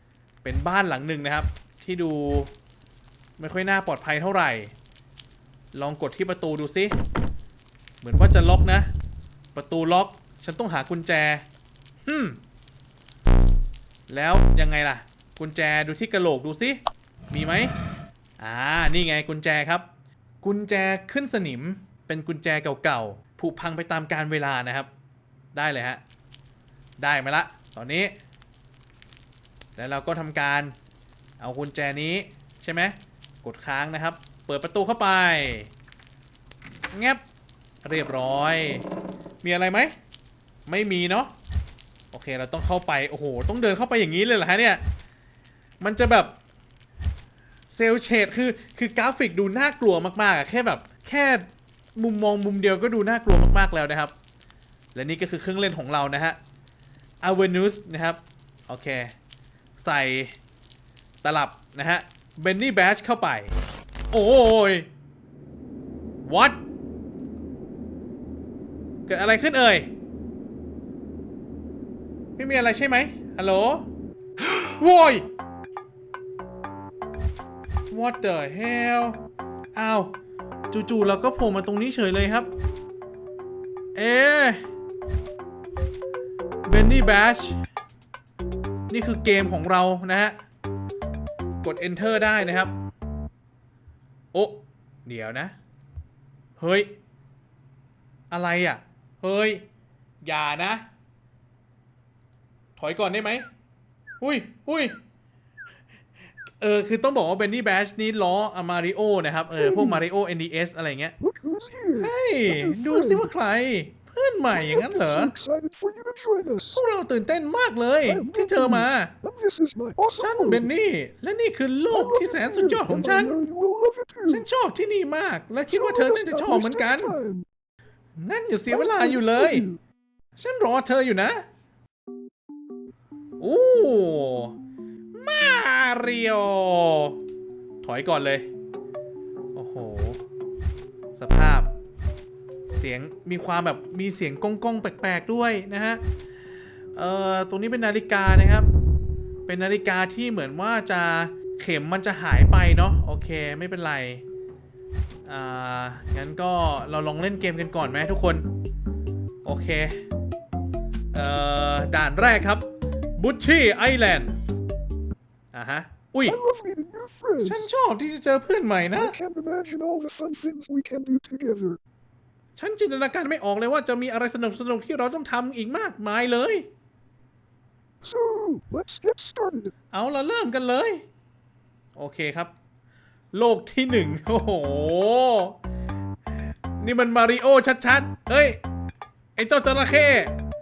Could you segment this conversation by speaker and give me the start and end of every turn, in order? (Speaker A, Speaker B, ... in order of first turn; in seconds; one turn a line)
Speaker A: 0.4-2.5
Speaker A: 3.4-4.7
Speaker A: 5.7-7.0
Speaker A: 8.0-8.9
Speaker A: 9.5-11.4
Speaker A: 12.1-12.4
Speaker A: 14.1-17.7
Speaker A: 18.4-19.9
Speaker A: 20.4-24.9
Speaker A: 25.5-26.0
Speaker A: 27.0-28.1
Speaker A: 29.8-30.7
Speaker A: 31.4-35.7
Speaker A: 36.9-37.2
Speaker A: 37.8-38.9
Speaker A: 39.4-39.9
Speaker A: 40.7-41.3
Speaker A: 42.1-44.8
Speaker A: 45.8-46.4
Speaker A: 47.7-54.1
Speaker A: 54.9-56.4
Speaker A: 57.2-59.1
Speaker A: 59.8-60.4
Speaker A: 61.2-63.6
Speaker A: 64.1-64.9
Speaker A: 66.2-66.6
Speaker A: 69.1-69.9
Speaker A: 72.4-73.9
Speaker A: 74.7-75.3
Speaker A: 77.9-79.2
Speaker A: 79.7-80.1
Speaker A: 80.7-82.5
Speaker A: 83.9-84.7
Speaker A: 86.7-87.6
Speaker A: 88.9-90.3
Speaker A: 91.6-92.7
Speaker A: 94.3-95.5
Speaker A: 96.6-96.9
Speaker A: 98.3-99.6
Speaker A: 100.2-100.8
Speaker A: 102.8-103.5
Speaker A: 104.2-105.0
Speaker A: 106.6-111.1
Speaker B: 109.6-110.0
Speaker B: 111.2-113.3
Speaker A: 112.0-115.3
Speaker B: 114.5-116.8
Speaker A: 116.7-119.1
Speaker B: 118.0-120.7
Speaker A: 120.2-123.4
Speaker B: 121.9-124.4
Speaker A: 124.3-127.2
Speaker B: 125.7-127.4
Speaker A: 128.2-129.7
Speaker B: 128.7-129.8
Speaker A: 130.4-131.4
Speaker A: 133.4-134.6
Speaker A: 135.1-137.2
Speaker A: 137.8-138.5
Speaker A: 139.5-140.2
Speaker A: 141.2-141.7
Speaker A: 142.7-146.0
Speaker A: 146.9-148.7
Speaker A: 149.4-154.2
Speaker A: 155.2-158.4
Speaker A: 159.4-160.0
Speaker A: 161.1-164.4
Speaker A: 165.5-166.4
Speaker B: 166.2-167.7
Speaker A: 167.4-169.2
Speaker B: 168.9-171.8
Speaker A: 172.6-176.7
Speaker B: 178.0-179.7
Speaker A: 179.9-181.0
Speaker A: 181.9-182.5
Speaker A: 183.3-185.6
Speaker A: 186.8-188.6
Speaker A: 189.3-190.3